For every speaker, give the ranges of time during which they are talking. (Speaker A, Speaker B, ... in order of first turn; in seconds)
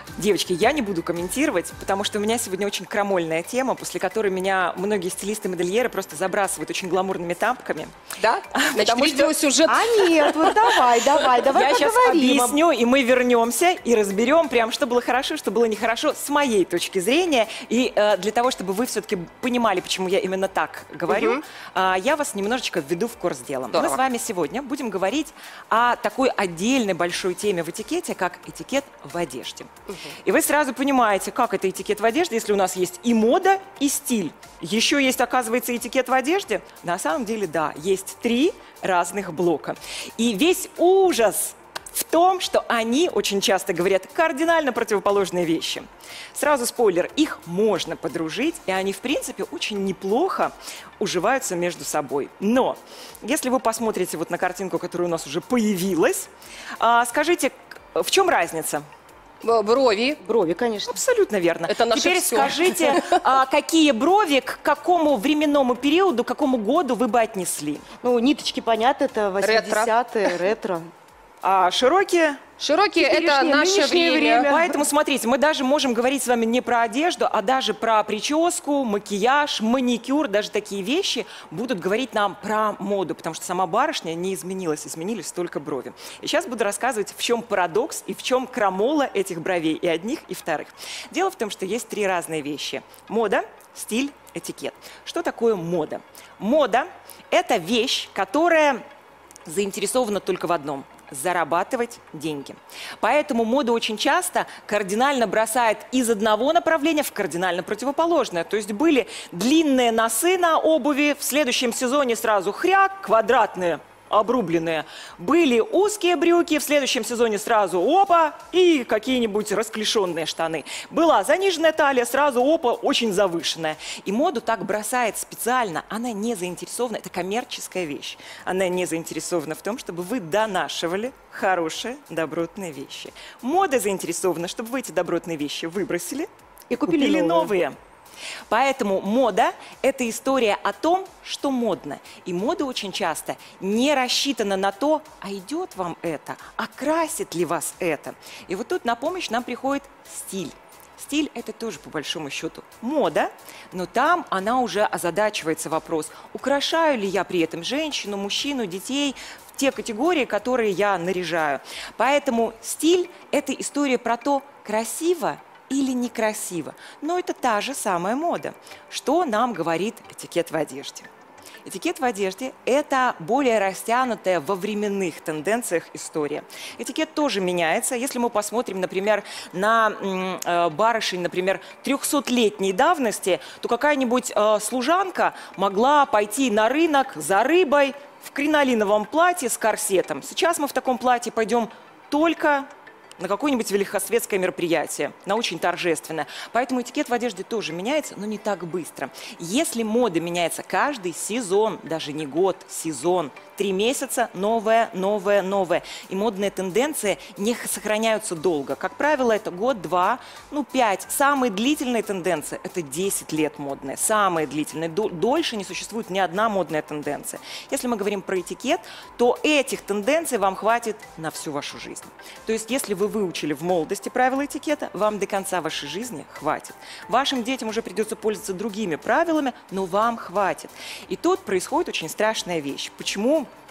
Speaker A: 0.2-7.9, 8.5-9.4, 11.5-29.7, 30.2-56.3, 56.8-58.9, 60.9-67.8, 71.4-72.5, 74.5-98.8, 99.5-136.3, 136.9-137.8, 138.5-171.1, 171.7-233.5
Speaker B: 8.2-10.5, 21.1-21.4, 23.7-24.0, 59.4-60.2, 61.7-63.3, 69.4-70.4, 72.6-74.5
Speaker C: 9.7-12.6, 60.2-61.0, 68.0-70.9, 73.0-74.9, 136.7-137.5